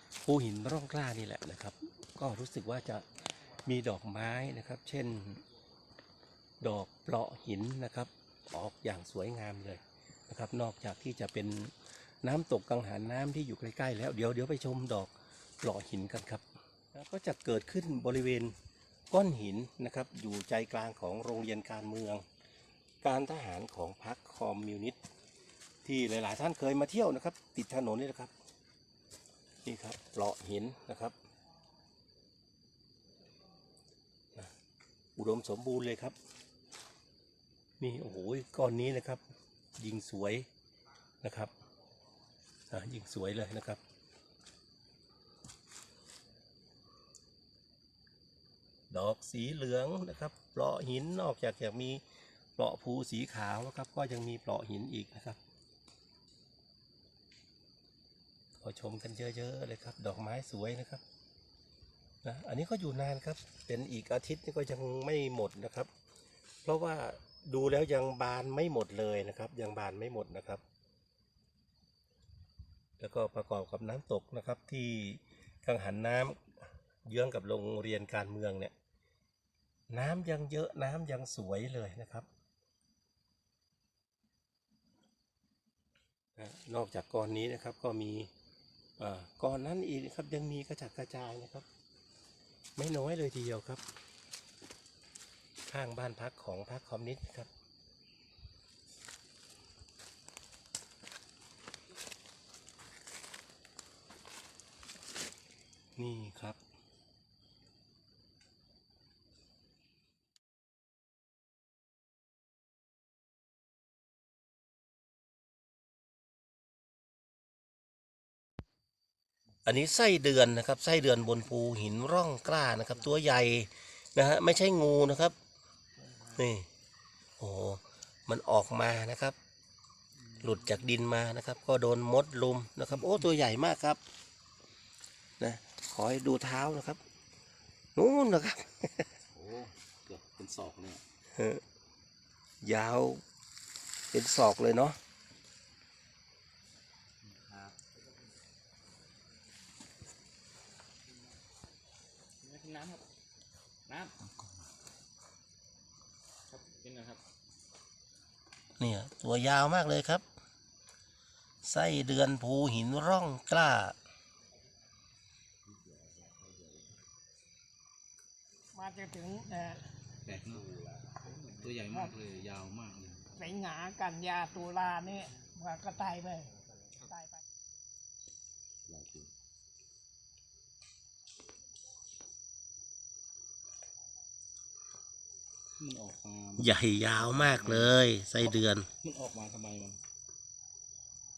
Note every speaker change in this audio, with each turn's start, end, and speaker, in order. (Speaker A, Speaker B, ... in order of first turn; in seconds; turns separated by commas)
Speaker A: 0.2-3.0, Speaker A: 3.6-5.4, Speaker A: 6.6-18.5, Speaker A: 19.1-22.2, Speaker A: 23.0-25.0, Speaker A: 25.8-28.3, Speaker A: 29.6-31.1, Speaker A: 35.1-36.1, Speaker A: 37.8-39.2, Speaker A: 39.8-40.5, Speaker A: 41.2-41.5, Speaker A: 42.7-43.8, Speaker A: 48.9-52.0, Speaker A: 52.5-55.4, Speaker A: 58.6-61.0, Speaker A: 62.2-65.9, Speaker A: 66.6-70.6, Speaker A: 73.0-78.7, Speaker A: 79.9-82.3, Speaker A: 86.3-88.3, Speaker A: 89.0-91.7, Speaker A: 92.8-93.8, Speaker A: 95.7-97.5, Speaker A: 106.0-106.6, Speaker A: 119.7-125.3, Speaker A: 126.2-126.7, Speaker A: 127.4-129.3, Speaker A: 130.4-134.0, Speaker A: 135.4-137.0, Speaker A: 137.9-139.1, Speaker B: 139.3-141.0, Speaker A: 141.3-141.6, Speaker A: 142.6-143.2, Speaker A: 144.1-145.0, Speaker B: 147.2-147.5, Speaker C: 152.4-153.1, Speaker C: 153.8-154.1, Speaker C: 156.5-157.2, Speaker A: 158.8-160.2, Speaker A: 161.6-163.9, Speaker C: 165.7-166.8, Speaker D: 168.7-169.8, Speaker B: 170.2-170.7, Speaker C: 170.5-171.6, Speaker B: 171.6-173.3, Speaker D: 173.3-176.5, Speaker B: 178.9-179.3, Speaker B: 185.8-190.0, Speaker A: 186.6-188.9